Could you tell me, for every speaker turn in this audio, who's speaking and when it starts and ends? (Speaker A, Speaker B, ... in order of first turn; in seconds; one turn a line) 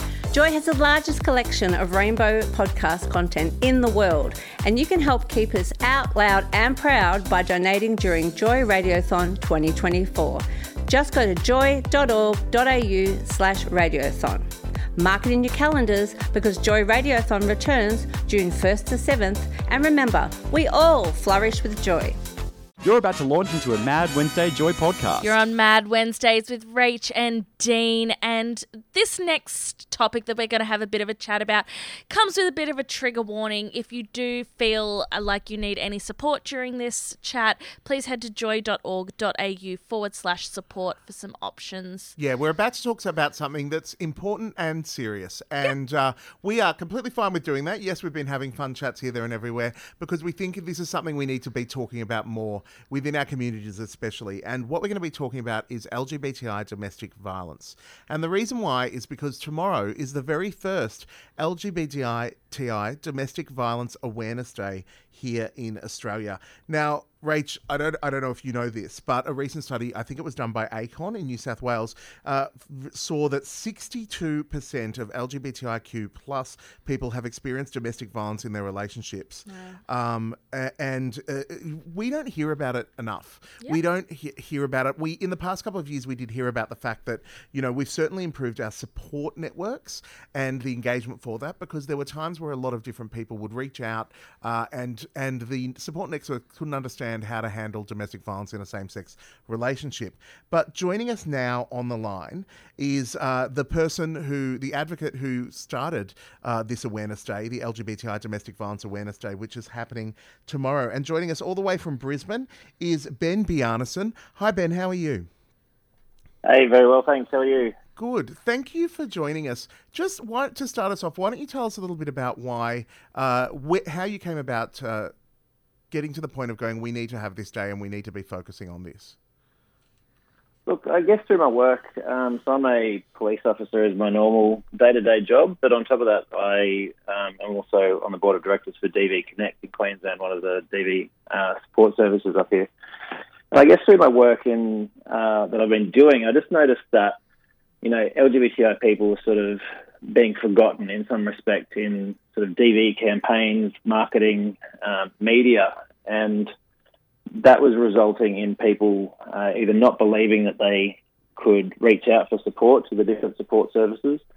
Speaker A: 0.3-14.4
Speaker A: 14.9-22.2
Speaker B: 22.8-25.3
Speaker C: 25.2-42.1
Speaker D: 42.2-115.3
Speaker C: 79.5-79.8
Speaker E: 116.4-117.7
Speaker D: 118.0-125.1
Speaker D: 125.9-129.2
Speaker E: 130.7-142.7
Speaker E: 143.5-147.2
Speaker E: 147.8-156.5
Speaker E: 157.3-164.2